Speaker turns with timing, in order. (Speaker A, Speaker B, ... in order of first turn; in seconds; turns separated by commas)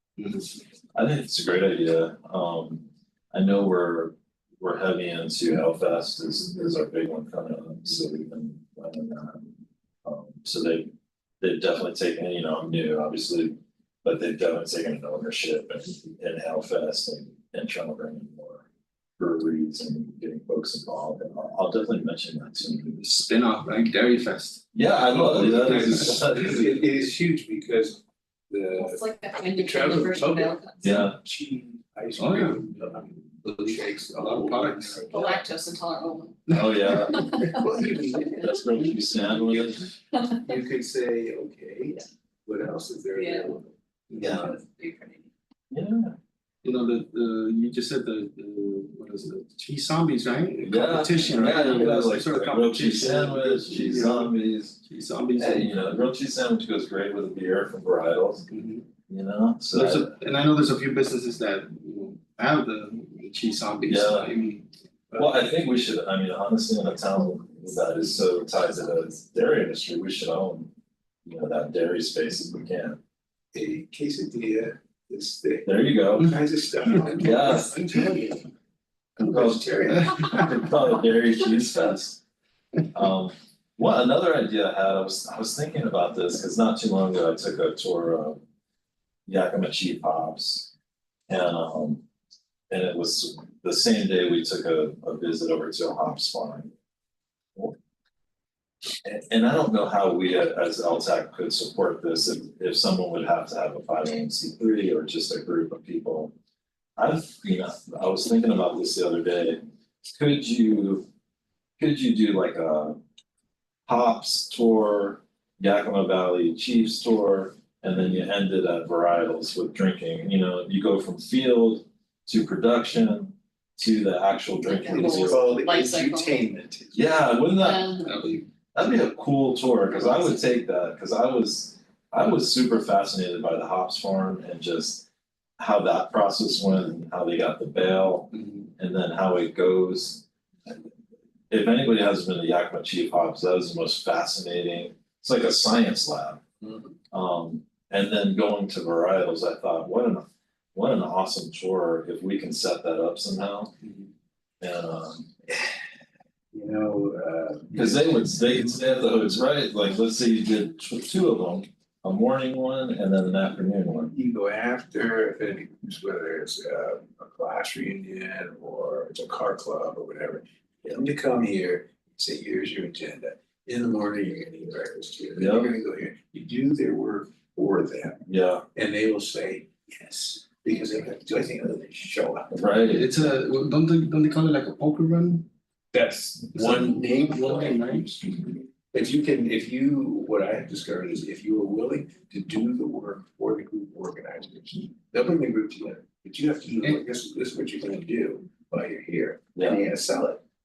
Speaker A: 0.2-0.5, Speaker B: 0.9-18.6, Speaker B: 19.2-23.0, Speaker A: 23.0-26.4, Speaker B: 24.7-26.8, Speaker C: 25.7-35.5, Speaker D: 28.8-30.8, Speaker B: 30.8-31.1, Speaker A: 32.2-32.6, Speaker A: 33.6-35.1, Speaker D: 35.1-38.9, Speaker A: 36.5-37.1, Speaker B: 36.5-37.2, Speaker C: 37.5-38.5, Speaker B: 38.4-39.9, Speaker D: 40.1-40.5, Speaker C: 40.4-43.7, Speaker D: 43.1-43.5, Speaker A: 44.1-44.5, Speaker B: 44.2-44.6, Speaker D: 44.2-45.3, Speaker B: 45.7-46.1, Speaker A: 46.6-54.3, Speaker B: 50.6-54.8, Speaker A: 54.8-55.7, Speaker B: 55.4-58.5, Speaker A: 58.5-58.9, Speaker B: 59.1-60.1, Speaker A: 59.7-64.7, Speaker B: 63.9-64.3, Speaker C: 65.1-65.4, Speaker B: 65.2-70.7, Speaker B: 71.2-73.0, Speaker C: 73.5-78.5, Speaker B: 75.6-76.3, Speaker B: 77.2-77.8, Speaker C: 79.2-80.5, Speaker B: 79.2-82.2, Speaker B: 82.9-88.4, Speaker B: 89.3-90.7, Speaker B: 91.3-92.0, Speaker B: 92.7-96.7, Speaker B: 99.0-106.3, Speaker B: 107.0-109.6, Speaker B: 110.1-111.0, Speaker B: 111.8-113.0, Speaker B: 113.9-125.5, Speaker A: 117.9-118.2, Speaker D: 124.6-126.4, Speaker C: 124.8-127.3, Speaker B: 126.9-127.9, Speaker D: 127.6-128.1, Speaker A: 128.0-128.4, Speaker B: 128.7-135.1, Speaker B: 135.6-140.8, Speaker A: 138.3-138.7, Speaker B: 141.5-146.4, Speaker C: 146.6-146.9, Speaker B: 147.1-153.7, Speaker B: 154.6-155.3, Speaker C: 156.5-158.3, Speaker B: 157.7-164.1, Speaker C: 164.1-178.2, Speaker B: 175.3-175.7, Speaker B: 178.2-178.6, Speaker C: 178.7-183.3, Speaker B: 182.5-183.1, Speaker A: 182.9-185.5, Speaker C: 185.9-187.8, Speaker A: 186.5-188.2, Speaker C: 188.9-200.4, Speaker B: 199.5-199.8